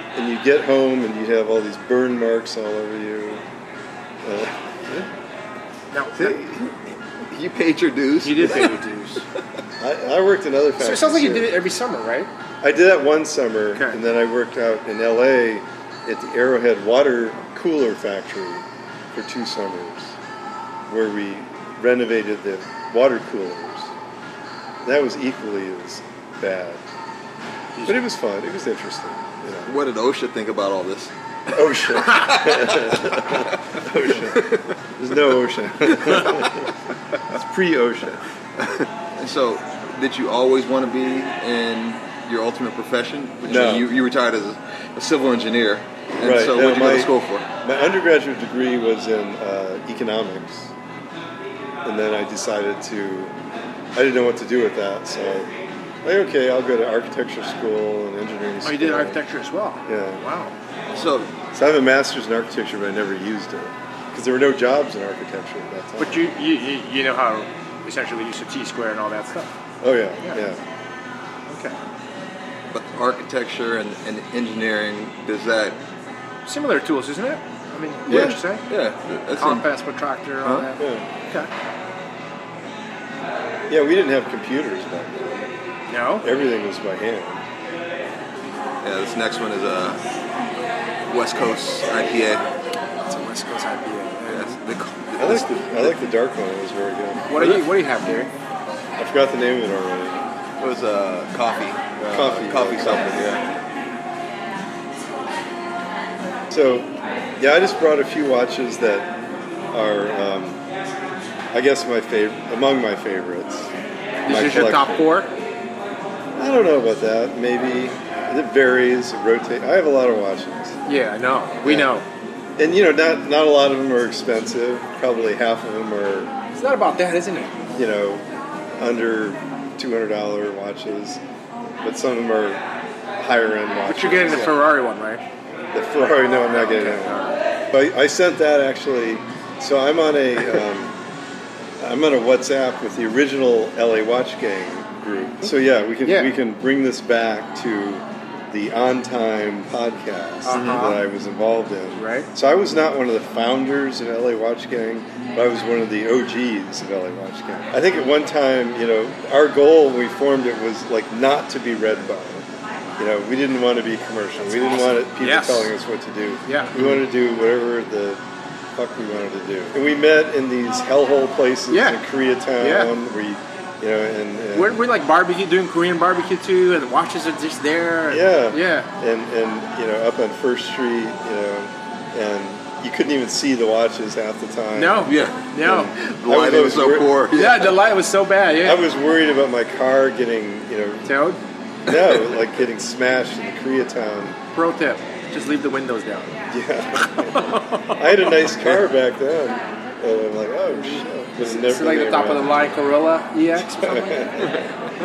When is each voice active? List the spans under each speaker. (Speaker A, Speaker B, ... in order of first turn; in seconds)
Speaker A: 0.1-3.4, 4.2-5.1, 9.8-11.6, 12.6-20.1, 20.9-23.9, 24.8-26.8, 27.8-29.8, 31.5-36.7, 37.3-38.2, 43.5-43.9, 46.2-50.7, 51.8-53.3, 53.9-55.5, 56.0-59.2, 59.9-60.2, 61.5-66.3, 69.8-70.6, 78.1-78.4, 80.8-81.0, 83.7-85.5, 86.2-87.4, 95.2-97.6, 99.0-100.2, 102.1-103.4, 106.5-109.1, 109.7-110.6, 111.5-113.7, 114.3-115.0, 116.3-120.8, 121.6-121.9, 122.6-126.3, 127.8-131.2, 131.8-132.6, 133.2-134.6, 135.7-140.9, 141.8-168.2, 168.8-174.8, 178.1-185.1, 185.6-187.3, 188.6-191.2, 191.8-194.4, 196.5-202.7, 203.6-204.6
Speaker B: 5.9-6.4, 8.2-9.2, 10.8-12.3, 58.6-60.5, 66.0-69.5, 71.5-71.8, 76.5-78.6, 79.4-81.5, 85.9-86.3, 93.0-94.6, 97.3-98.3, 114.2-115.3, 120.8-122.0, 126.5-127.6, 133.8-135.2, 136.0-137.4, 146.0-146.4, 150.4-151.0, 151.9-152.3, 164.4-165.7, 166.4-166.8, 171.7-172.0, 172.6-172.9, 174.5-178.9, 184.7-185.9, 187.3-188.8, 191.0-191.4, 194.5-196.3, 196.9-198.0, 201.4-204.6
Speaker C: 6.2-9.2, 29.7-33.6, 34.3-34.7, 35.9-36.7, 39.2-47.5, 60.9-61.3, 72.7-75.8, 78.1-79.7, 88.8-90.0, 91.1-92.5, 94.3-95.9, 100.6-103.5, 150.5-150.9, 185.0-187.7, 191.9-192.4